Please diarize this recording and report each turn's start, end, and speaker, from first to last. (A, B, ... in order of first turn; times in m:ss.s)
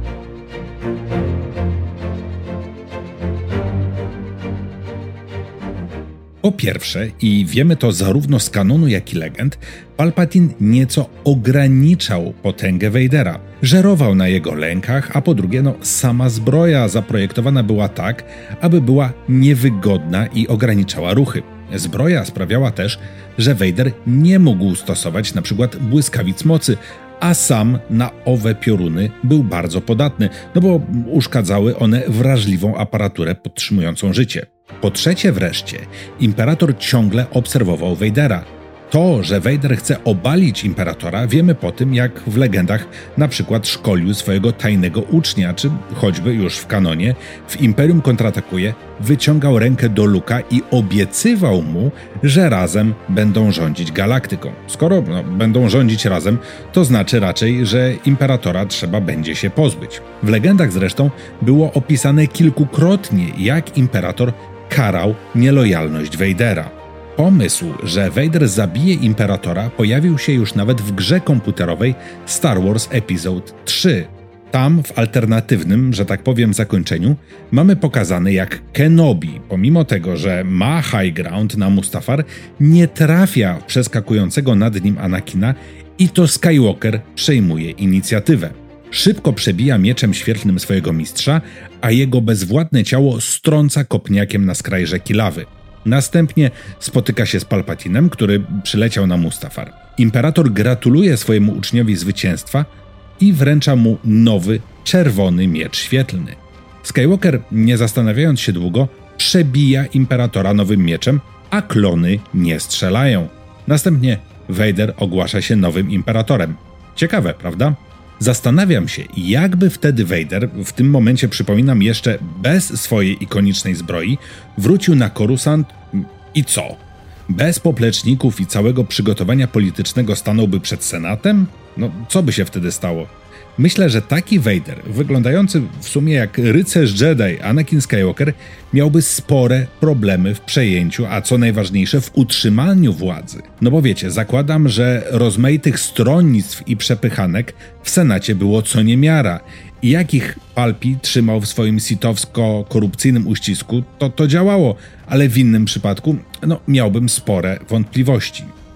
0:06.4-1:42.7 A
1:43.2-2:38.5 A